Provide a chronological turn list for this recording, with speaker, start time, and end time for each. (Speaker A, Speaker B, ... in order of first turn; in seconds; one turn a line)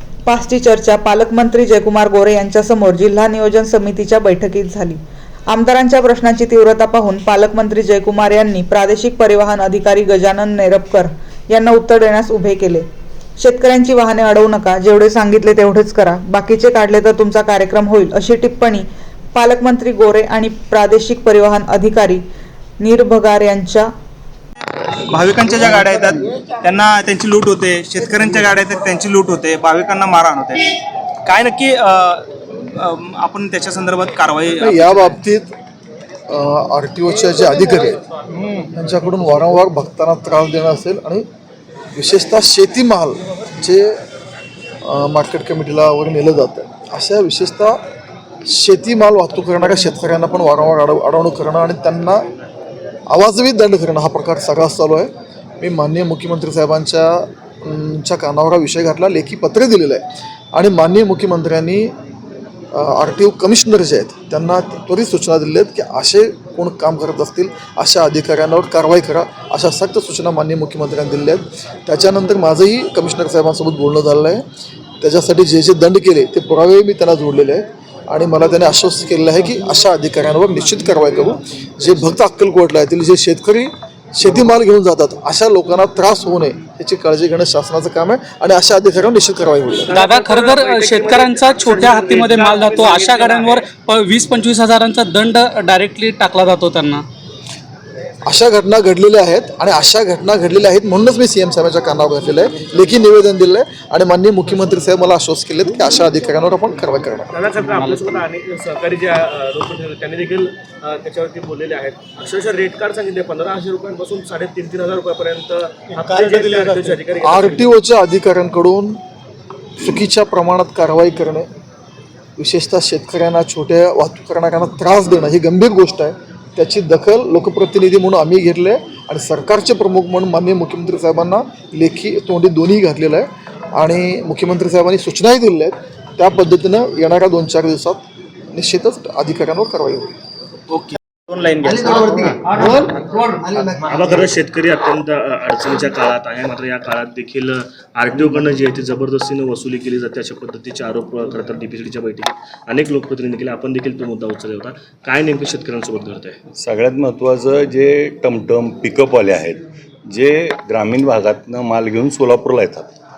Speaker A: 0.2-12.9
Speaker A: 13.4-22.2
Speaker A: 22.8-23.9
Speaker B: 25.0-30.7
Speaker B: 31.2-35.2
Speaker C: 34.6-35.5
Speaker C: 36.3-38.0
Speaker C: 38.6-41.2
Speaker C: 41.9-44.0
Speaker C: 44.8-47.8
Speaker C: 48.5-52.2
Speaker C: 53.1-61.9
Speaker C: 62.7-74.4
Speaker C: 75.0-90.0
Speaker D: 89.9-93.6
Speaker E: 89.9-97.0
Speaker C: 98.2-107.3
Speaker D: 107.3-117.7
Speaker E: 107.8-108.1
Speaker B: 116.2-116.9
Speaker C: 117.2-119.0
Speaker C: 119.8-121.5
Speaker C: 122.4-140.1
Speaker B: 140.7-143.3
Speaker D: 143.9-156.4
Speaker F: 156.6-162.9